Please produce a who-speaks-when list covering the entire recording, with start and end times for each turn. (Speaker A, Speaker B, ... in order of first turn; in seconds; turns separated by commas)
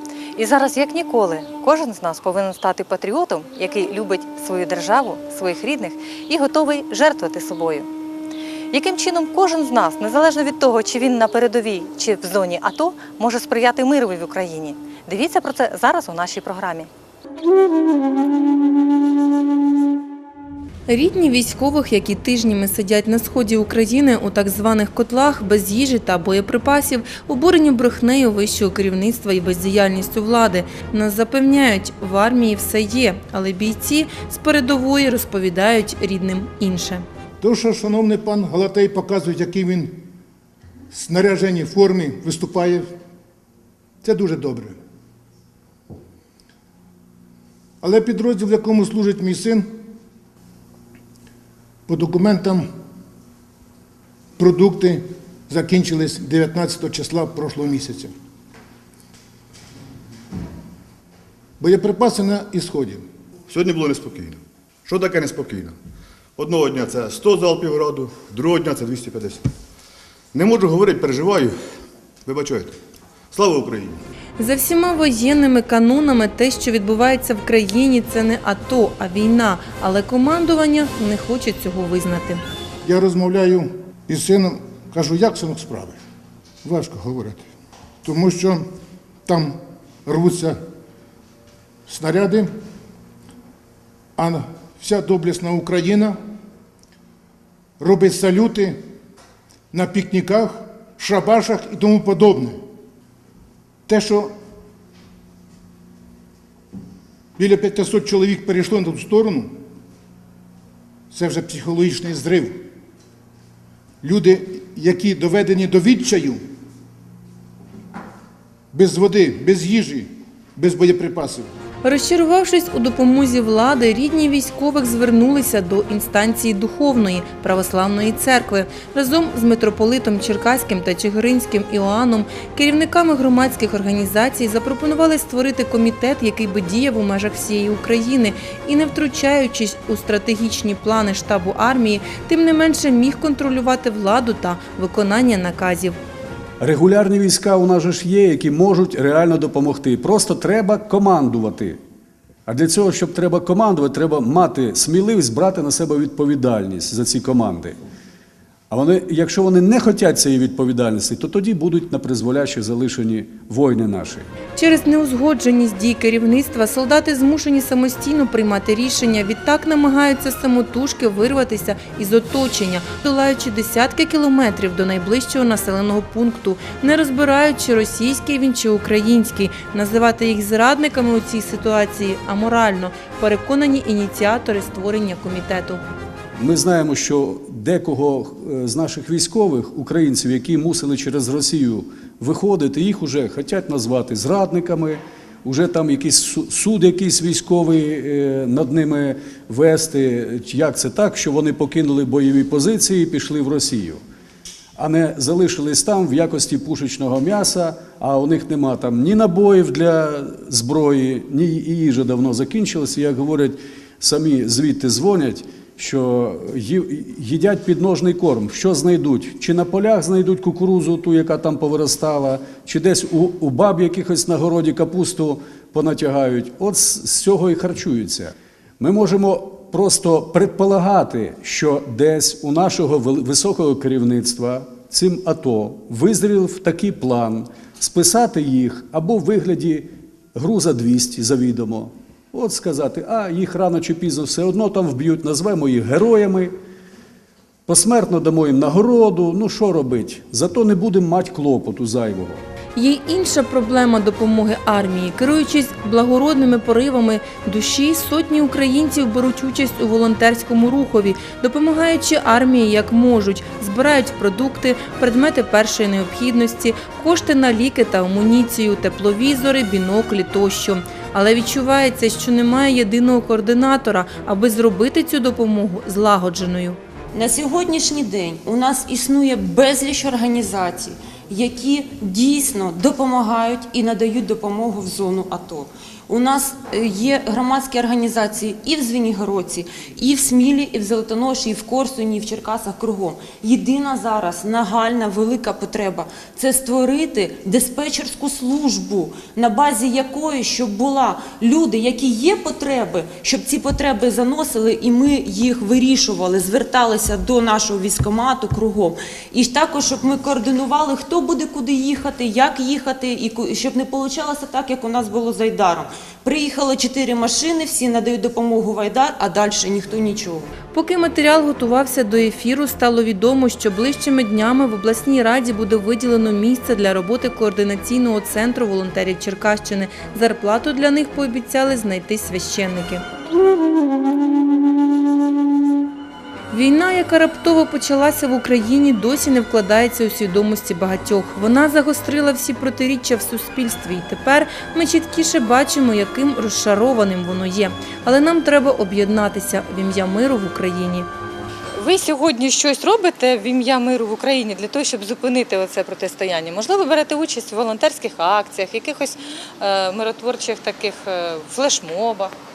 Speaker A: 0.4-7.9, Speaker A: 8.7-16.9, Speaker B: 20.9-37.0, Speaker C: 37.4-40.0, Speaker C: 40.9-42.9, Speaker C: 44.0-44.8, Speaker C: 47.8-49.7, Speaker C: 51.9-52.6, Speaker C: 54.4-58.1, Speaker C: 61.6-63.0, Speaker D: 63.5-65.7, Speaker D: 66.4-69.4, Speaker D: 70.3-71.5, Speaker D: 72.3-72.7, Speaker D: 73.3-74.0, Speaker B: 74.4-82.4, Speaker C: 82.8-86.0, Speaker C: 86.6-87.4, Speaker C: 88.0-88.6, Speaker C: 89.3-89.5, Speaker C: 90.0-90.6, Speaker C: 91.9-92.5, Speaker C: 94.2-96.1, Speaker C: 97.8-98.8, Speaker C: 99.7-102.6, Speaker C: 103.9-104.3, Speaker C: 107.4-109.5, Speaker C: 111.1-112.6, Speaker C: 114.0-116.4, Speaker C: 118.7-121.5, Speaker B: 121.8-146.0, Speaker E: 146.6-151.8, Speaker E: 152.5-157.8, Speaker E: 158.7-164.3, Speaker B: 164.6-185.8, Speaker E: 186.4-204.0, Speaker E: 204.8-246.5, Speaker E: 247.7-252.4, Speaker B: 252.8-276.8, Speaker F: 277.1-320.5, Speaker B: 320.7-333.0, Speaker B: 336.5-351.1, Speaker A: 351.8-362.3